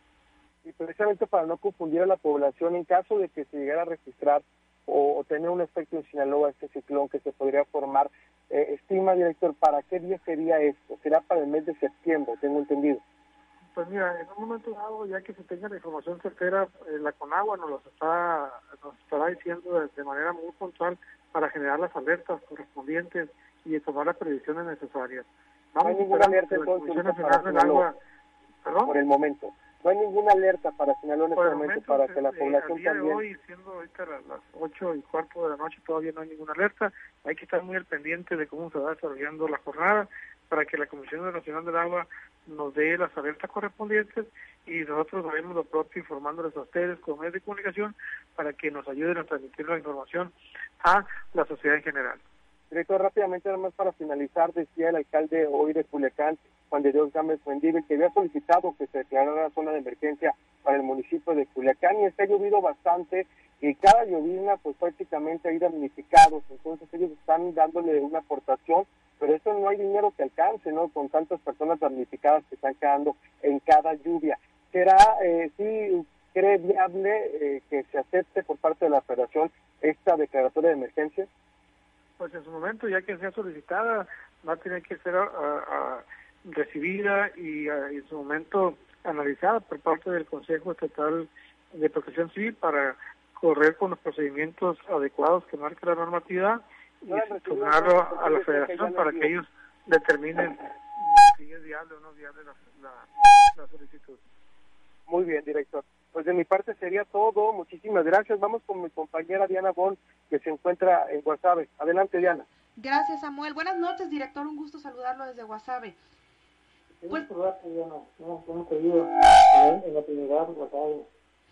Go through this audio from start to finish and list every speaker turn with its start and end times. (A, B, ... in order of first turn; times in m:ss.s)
0:00.6-0:13.0 A
0:13.7-0:28.0 B
0:25.8-0:27.9 A
0:28.6-0:28.9 B
0:28.8-0:33.2 A
0:31.4-0:52.2 B
0:52.7-1:21.3 A
1:22.2-1:44.2 B
1:37.1-1:39.3 A
1:45.1-1:52.4 A
1:52.8-1:56.0 C
1:57.0-2:01.1 B